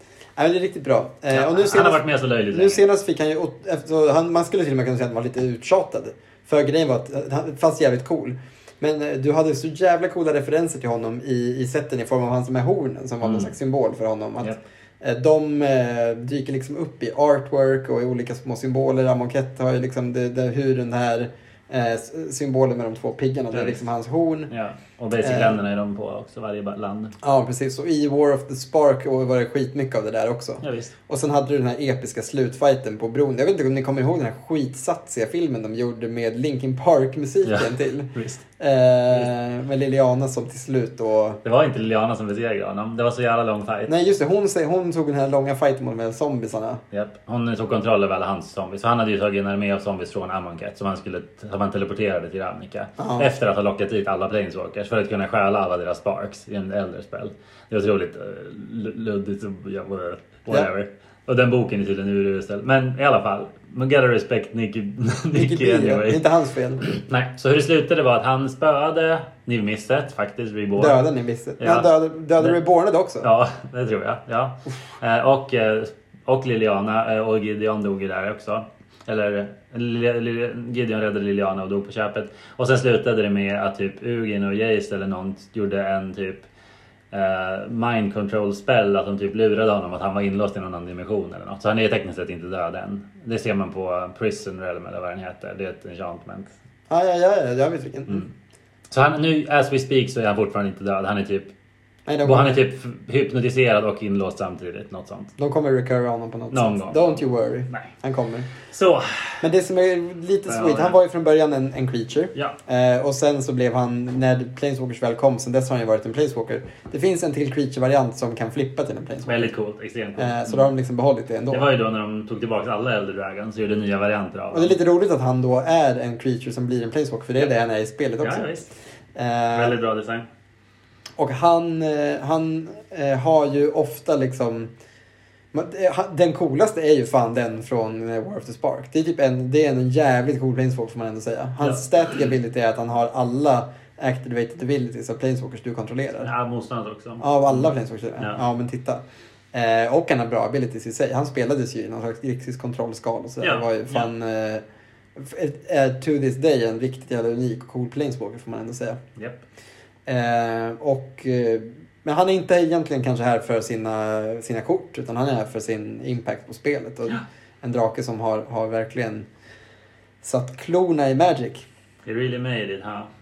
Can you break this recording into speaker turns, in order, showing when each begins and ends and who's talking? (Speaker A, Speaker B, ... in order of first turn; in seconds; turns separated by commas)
Speaker A: 0.4-24.5, Speaker B: 1.3-2.8, Speaker B: 13.2-13.5, Speaker B: 23.5-23.8, Speaker B: 24.5-27.2, Speaker A: 25.2-25.6, Speaker A: 27.2-41.4, Speaker B: 30.6-30.9, Speaker B: 37.5-38.4, Speaker B: 41.4-43.9, Speaker A: 43.9-46.8, Speaker B: 46.9-66.2, Speaker A: 53.0-53.3, Speaker A: 65.3-66.8, Speaker B: 66.8-71.0, Speaker A: 70.8-73.3, Speaker B: 71.6-72.6, Speaker B: 73.2-86.5, Speaker B: 87.1-96.5, Speaker A: 96.9-98.2, Speaker B: 98.9-101.5, Speaker A: 102.1-102.6, Speaker B: 102.2-105.3, Speaker A: 105.4-108.5, Speaker B: 106.5-107.2, Speaker B: 108.6-109.4, Speaker A: 109.4-119.5, Speaker B: 110.5-111.0, Speaker B: 119.3-120.7, Speaker A: 120.2-121.7, Speaker B: 121.5-124.8, Speaker A: 124.5-128.5, Speaker B: 128.2-128.7, Speaker A: 129.2-129.8, Speaker B: 129.5-130.3, Speaker A: 131.2-134.7, Speaker A: 135.5-146.3, Speaker B: 146.2-148.4, Speaker A: 147.2-154.6, Speaker B: 153.4-154.1, Speaker A: 155.2-159.0, Speaker B: 159.2-159.4, Speaker A: 160.1-169.3, Speaker A: 170.2-171.7, Speaker B: 172.1-173.1